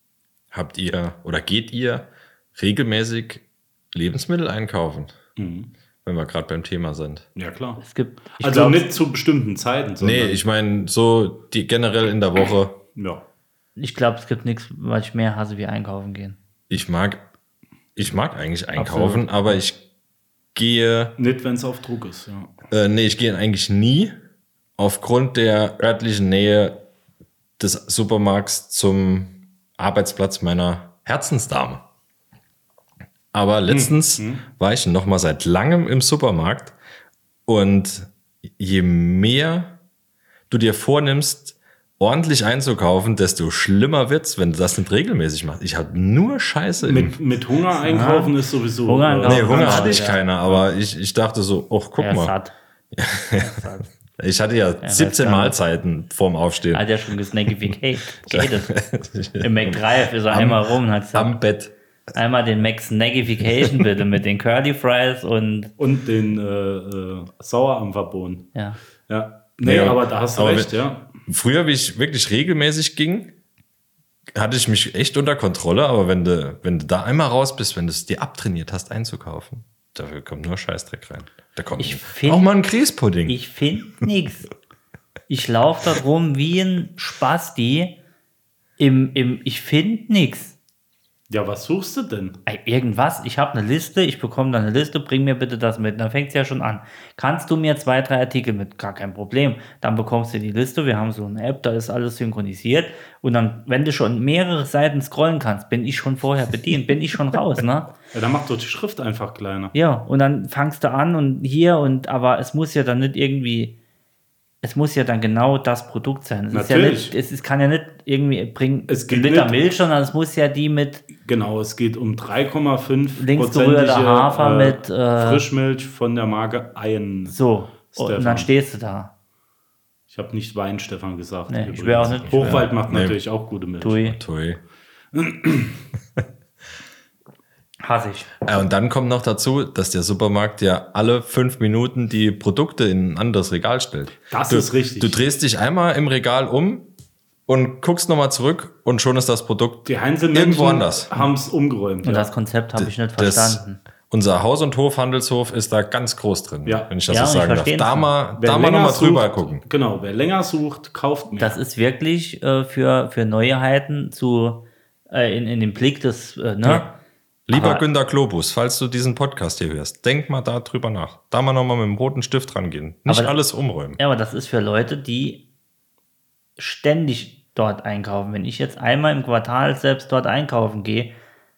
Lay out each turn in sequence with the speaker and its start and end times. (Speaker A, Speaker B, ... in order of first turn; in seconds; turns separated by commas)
Speaker A: 0.5-5.2, Speaker B: 5.4-5.7, Speaker A: 6.0-7.3, Speaker B: 7.4-7.8, Speaker C: 7.8-8.9, Speaker B: 8.4-10.4, Speaker A: 10.0-12.8, Speaker B: 12.9-13.2, Speaker C: 13.8-16.4, Speaker A: 16.7-17.2, Speaker A: 18.0-19.8, Speaker C: 18.8-19.2, Speaker A: 20.6-21.2, Speaker B: 21.2-22.5, Speaker A: 22.7-24.2, Speaker A: 24.8-26.8, Speaker A: 27.6-31.8, Speaker A: 33.3-36.8, Speaker B: 33.7-34.4, Speaker A: 37.5-39.8, Speaker A: 40.5-47.2, Speaker B: 46.8-50.6, Speaker C: 47.9-48.3, Speaker C: 48.9-50.2, Speaker A: 49.2-52.4, Speaker C: 52.0-52.5, Speaker A: 52.9-53.5, Speaker C: 53.4-53.9, Speaker A: 54.2-56.9, Speaker C: 54.8-55.6, Speaker C: 56.7-58.7, Speaker A: 58.2-61.7, Speaker C: 59.4-61.4, Speaker C: 62.1-65.7, Speaker B: 65.8-68.5, Speaker B: 69.1-71.1, Speaker A: 69.6-70.7, Speaker A: 71.3-73.3, Speaker A: 74.3-83.4, Speaker C: 81.8-82.5, Speaker C: 83.3-84.5, Speaker C: 85.3-88.0, Speaker C: 88.8-90.6, Speaker B: 91.3-92.4, Speaker C: 92.5-107.9, Speaker B: 108.1-109.7, Speaker C: 109.7-113.8, Speaker C: 114.6-121.1, Speaker B: 116.5-117.2, Speaker B: 118.9-119.6, Speaker B: 121.1-128.5, Speaker C: 123.2-125.4, Speaker C: 127.3-129.1, Speaker B: 130.1-134.1, Speaker C: 131.5-132.7, Speaker A: 132.3-133.2, Speaker C: 133.8-134.2, Speaker A: 134.0-134.6, Speaker B: 135.1-135.8, Speaker C: 137.8-138.3, Speaker A: 138.4-146.9, Speaker B: 144.3-145.2, Speaker A: 147.5-151.1, Speaker B: 149.9-152.3, Speaker C: 152.0-153.8, Speaker A: 152.8-159.6, Speaker B: 156.7-156.9, Speaker C: 157.1-158.1, Speaker B: 158.4-161.6, Speaker C: 161.4-166.9, Speaker A: 166.6-166.9, Speaker A: 167.5-174.0, Speaker C: 167.5-167.8, Speaker C: 173.1-173.4, Speaker C: 174.0-175.4, Speaker C: 176.6-181.2